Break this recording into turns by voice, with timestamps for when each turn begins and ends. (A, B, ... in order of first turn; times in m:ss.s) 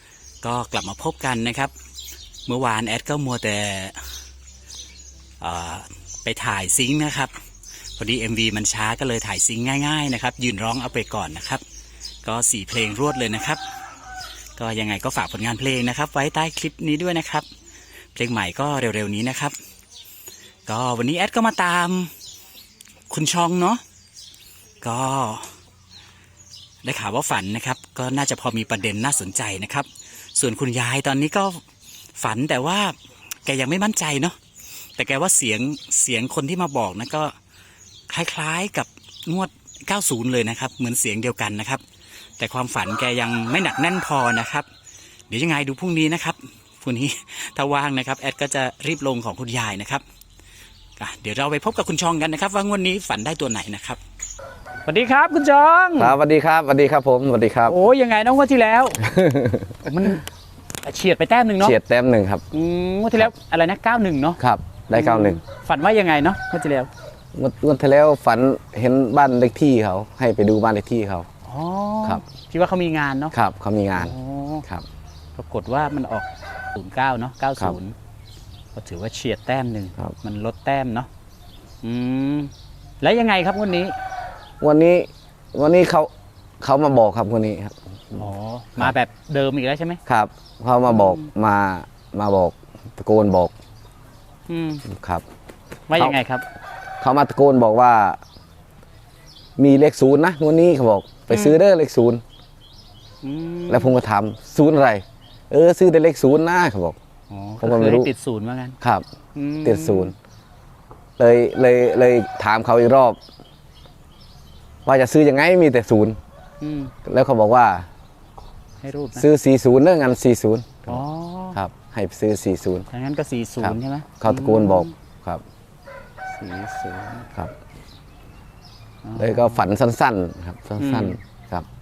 0:00.4-0:01.7 A
0:02.4-0:04.0 A
0:05.4-0:07.3 A
0:08.0-0:11.6 A
0:12.2-0:13.6 A
0:14.6-0:17.4 A
0:18.1-0:19.5 A
0:20.7-0:22.1 A
0:23.1-0:23.8 A
0:24.8-0:25.5 A
0:26.8-0:31.6 A
0:32.2-0:34.4 A
0:35.0-0:37.3 A
0:38.1-0:41.8 A
0:42.4-0:44.7 A
0:45.3-0:50.0 A
0:51.0-0:54.0 A
0:54.8-0:56.1 A
0:56.0-0:57.8 B
0:57.6-0:59.1 A
0:59.0-0:59.9 B
0:59.8-1:00.2 A
1:00.8-1:01.8 A
1:01.6-1:02.4 B
1:02.5-1:04.4 A
1:04.4-1:05.4 B
1:04.9-1:06.9 A
1:07.3-1:11.3 B
1:11.4-1:13.3 A
1:13.3-1:14.1 B
1:13.9-1:14.6 A
1:15.4-1:17.9 A
1:18.7-1:21.1 A
1:21.8-1:23.9 A
1:24.6-1:26.1 B
1:26.6-1:28.2 B
1:28.1-1:30.0 A
1:30.1-1:33.5 B
1:30.9-1:31.3 A
1:34.5-1:34.8 A
1:34.9-1:35.2 B
1:35.9-1:36.4 A
1:37.0-1:38.2 B
1:39.6-1:42.2 B
1:41.3-1:41.6 A
1:43.2-1:43.9 A
1:43.7-1:47.0 B
1:47.3-1:48.8 A
1:47.6-1:48.1 B
1:49.3-1:50.1 A
1:49.6-1:50.1 B
1:51.2-1:53.2 B
1:54.8-1:56.2 B
1:56.6-1:56.9 A
1:57.0-1:57.9 B
1:58.8-1:59.2 A
1:59.2-2:01.0 B
2:00.9-2:01.6 A
2:01.5-2:02.8 B
2:02.9-2:04.9 A
2:03.6-2:05.4 B
2:06.4-2:07.3 A
2:09.0-2:09.6 A
2:09.2-2:11.6 B
2:10.8-2:11.2 A